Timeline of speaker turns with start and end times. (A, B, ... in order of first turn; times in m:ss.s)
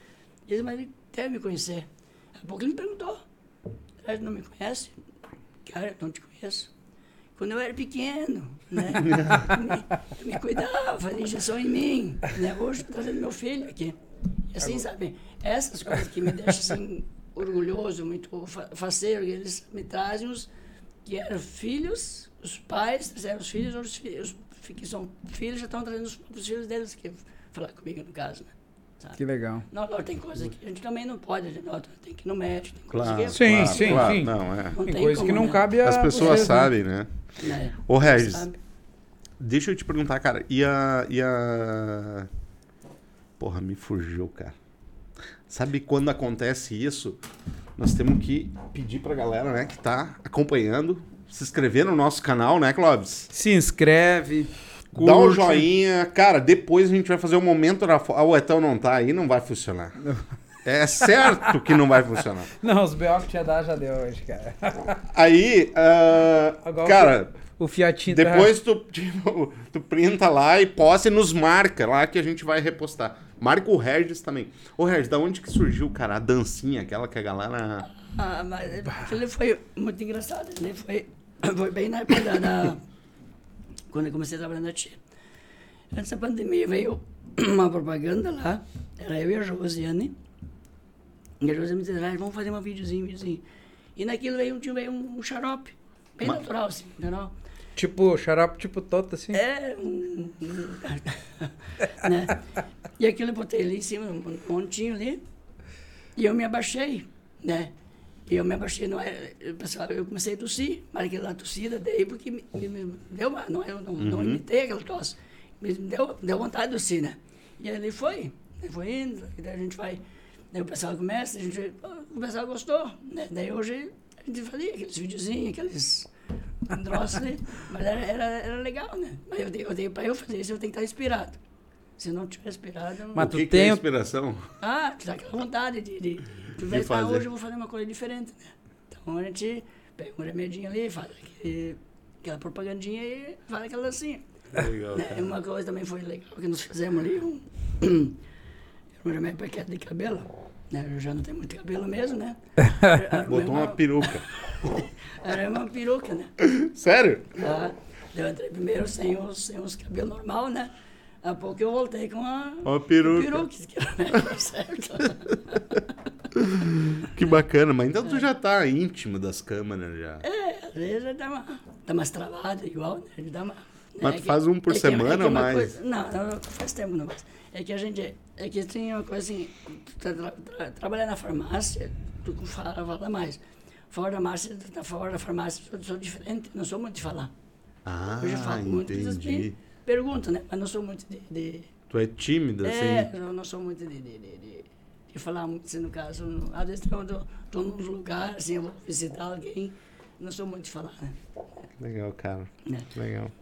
0:00.5-0:03.2 A
0:04.0-0:05.0 A
0:05.6-0:06.7 A
0:07.4-0:14.0 A
0:09.0-0:09.5 B
0:14.5-0:20.5 A
0:21.0-0:36.5 A
0:29.2-0:29.6 C
0:32.9-0:34.8 B
0:33.3-0:36.7 C
0:35.8-0:37.1 B
0:37.4-0:38.6 A
0:37.7-0:38.5 B
0:39.4-0:42.3 B
0:43.4-0:44.5 B
0:45.5-0:47.2 B
0:47.8-0:53.3 B
0:53.3-0:55.7 C
0:54.9-1:00.0 B
1:00.6-1:02.5 B
1:01.0-1:01.5 C
1:02.6-1:05.0 C
1:05.1-1:07.4 B
1:06.6-1:08.5 C
1:08.0-1:17.9 B
1:17.9-1:22.8 A
1:23.9-1:25.0 A
1:25.9-1:30.2 A
1:31.4-1:33.4 A
1:34.0-1:37.3 A
1:37.8-1:39.4 C
1:39.3-1:45.2 A
1:46.2-1:47.7 A
1:48.3-2:00.0 A
1:54.0-1:54.4 B
2:00.5-2:06.1 A
2:06.6-2:11.4 A
2:12.0-2:13.3 A
2:13.1-2:13.8 C
2:13.2-2:14.5 B
2:14.6-2:24.3 A
2:16.6-2:17.2 B
2:24.5-2:25.3 B
2:24.9-2:28.2 A
2:29.0-2:36.3 A
2:33.2-2:34.3 B
2:36.4-2:37.4 B
2:37.4-2:45.9 A
2:42.6-2:43.4 B
2:46.3-2:50.2 B
2:50.2-3:03.4 A
2:54.0-2:55.7 B
3:03.9-3:07.3 A
3:07.8-3:09.5 B
3:08.2-3:11.7 A
3:11.9-3:13.1 B
3:12.6-3:21.2 A
3:21.8-3:23.3 B